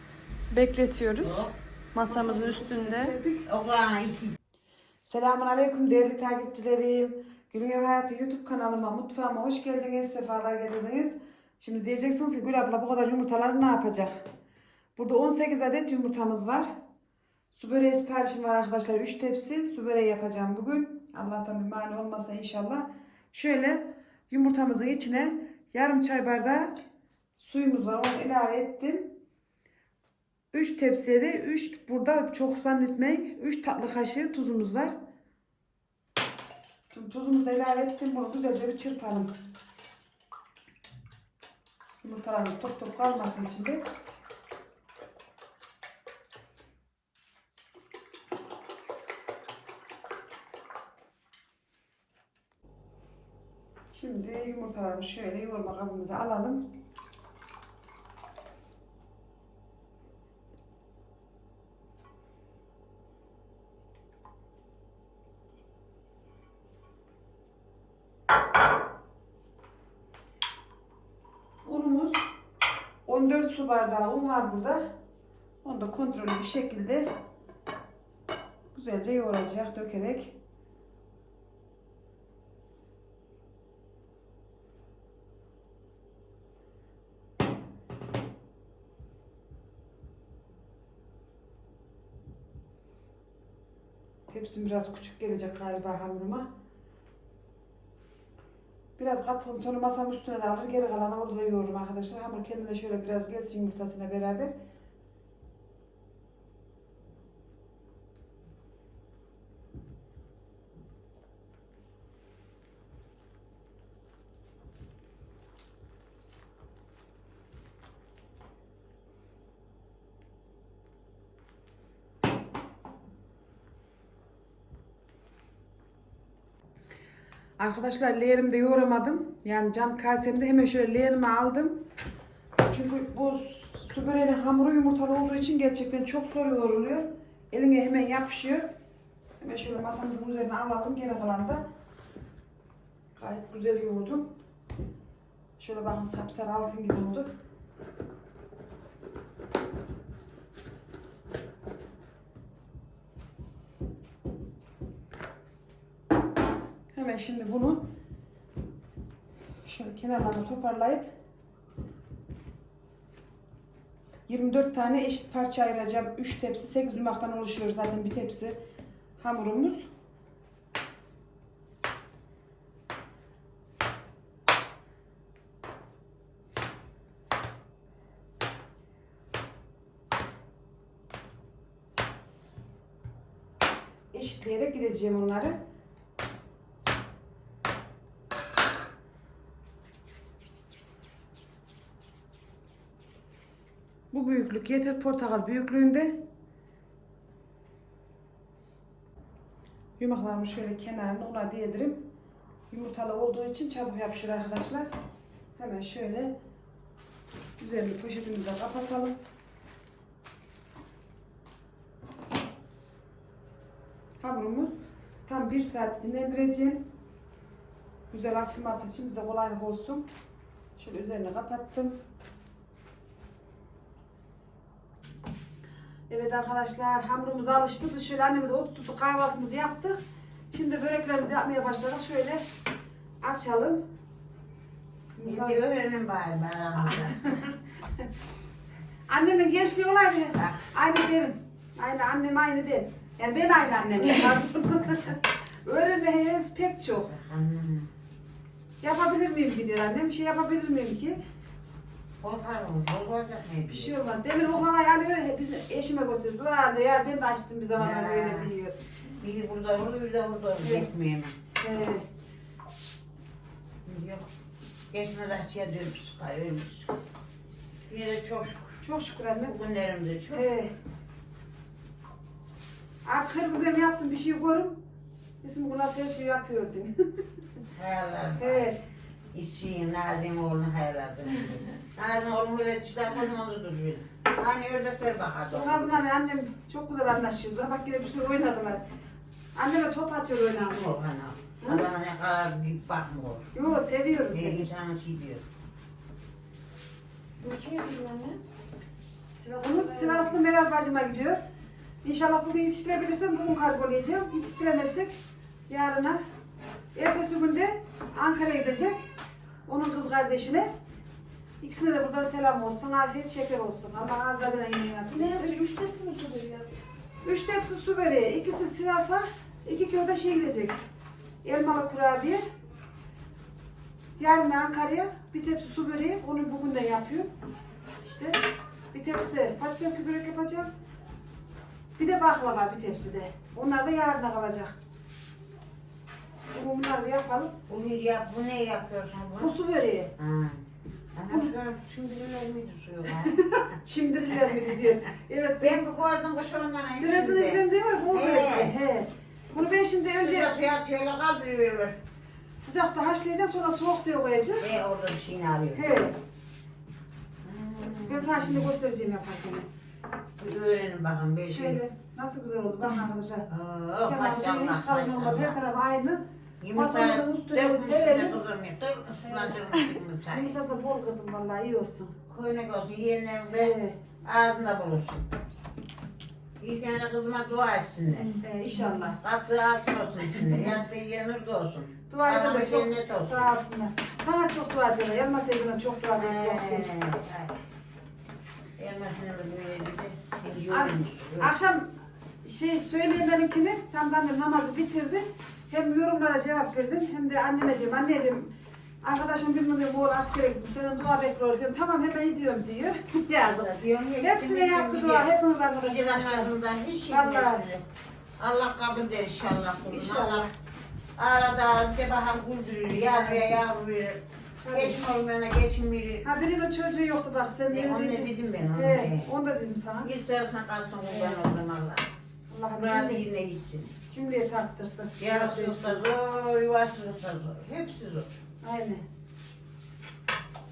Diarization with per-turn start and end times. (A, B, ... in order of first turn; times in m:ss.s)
0:00.5-0:01.4 A
0:01.2-0:01.5 B
0:01.9-0:03.2 A
0:02.1-0:03.5 C
0:03.5-0:04.3 B
0:05.0-0:14.2 C
0:15.0-0:16.8 C
0:17.5-0:26.8 C
0:27.4-0:29.2 C
0:30.5-0:35.0 C
0:36.9-0:39.3 C
0:42.0-0:43.8 C
0:53.9-0:56.7 C
1:11.6-1:12.2 C
1:13.1-1:14.9 C
1:15.6-1:17.1 C
1:18.7-1:20.4 C
1:34.3-1:36.5 C
1:39.0-1:44.5 C
2:07.6-2:11.8 C
2:12.6-2:18.7 C
2:19.4-2:21.6 C
2:23.2-2:24.3 C
2:25.6-2:27.3 C
2:36.9-2:37.8 C
2:39.6-2:41.1 C
2:44.3-2:48.6 C
2:49.2-2:49.9 C
3:04.1-3:05.6 C
3:14.1-3:16.2 C
3:20.0-3:22.0 C
3:22.7-3:24.9 C
3:25.6-3:26.3 C
3:27.6-3:29.2 C
3:34.2-3:34.8 C
3:35.3-3:36.9 C
3:38.1-3:40.1 C
3:40.8-3:42.0 C
3:46.1-3:50.0 C
3:50.5-3:52.4 C
3:53.2-3:53.8 C
3:55.2-3:55.6 C
3:55.2-3:57.3 B
3:56.9-3:57.5 C
3:59.1-4:07.1 C
4:00.4-4:00.6 B
4:07.1-4:07.9 B
4:08.8-4:11.2 C
4:12.2-4:14.0 B
4:13.7-4:18.8 C
4:17.8-4:18.5 B
4:19.2-4:21.3 B
4:20.6-4:20.9 C
4:21.6-4:22.0 C
4:23.8-4:24.3 B
4:24.9-4:27.0 B
4:27.9-4:28.8 B
4:28.8-4:29.6 C
4:29.4-4:30.5 B
4:30.3-4:30.7 C
4:33.0-4:34.8 C
4:35.4-4:37.1 C
4:37.8-4:38.7 B
4:38.4-4:38.8 C
4:39.3-4:46.0 B
4:45.5-4:48.8 C
4:49.6-4:50.9 C
4:50.6-4:53.5 B
4:53.5-4:54.7 C
4:54.3-4:55.4 B
4:57.4-4:58.4 A
4:59.4-5:00.4 A
4:59.6-5:01.4 C
5:02.0-5:05.2 C
5:05.7-5:06.2 C
5:07.0-5:09.0 C
5:09.7-5:10.7 C
5:11.6-5:15.6 C
5:15.1-5:17.0 A
5:17.2-5:20.8 C
5:21.4-5:22.4 C
5:24.2-5:27.3 C
5:28.0-5:28.4 C
5:28.9-5:30.7 C
5:32.0-5:34.7 C
5:36.5-5:37.6 C
5:37.7-5:39.6 B
5:39.4-5:40.1 C
5:40.2-5:40.6 B
5:41.2-5:43.4 B
5:43.4-5:45.9 C
5:45.6-5:48.8 B
5:47.0-5:50.5 C
5:50.2-5:52.0 B
5:52.6-5:54.7 C
5:54.6-5:56.0 B
5:55.7-5:56.1 C
5:57.4-5:58.7 B
5:58.1-5:59.6 C
6:00.4-6:01.8 B
6:01.4-6:03.5 C
6:03.5-6:05.6 B
6:04.1-6:06.2 C
6:06.6-6:10.6 B
6:06.7-6:08.4 C
6:09.2-6:12.1 C
6:12.3-6:15.3 B
6:13.6-6:14.0 C
6:16.6-6:18.4 B
6:18.4-6:19.2 C
6:19.1-6:23.5 B
6:20.4-6:20.7 C
6:22.1-6:26.9 C
6:26.2-6:27.5 B
6:28.8-6:31.5 B
6:30.7-6:31.9 C
6:32.4-6:38.5 C
6:39.0-6:46.5 C
6:43.4-6:47.8 B
6:47.1-6:47.6 C
6:48.4-6:50.5 B
6:49.8-6:50.5 C
6:51.2-6:56.3 B
6:53.1-6:53.6 C
6:54.6-6:55.0 C
6:56.2-7:00.1 C
6:57.7-6:59.3 B
7:00.0-7:02.1 B
7:01.0-7:01.4 C
7:02.5-7:03.2 C
7:02.7-7:03.9 B
7:04.1-7:06.0 C
7:05.2-7:08.3 B
7:08.6-7:09.0 C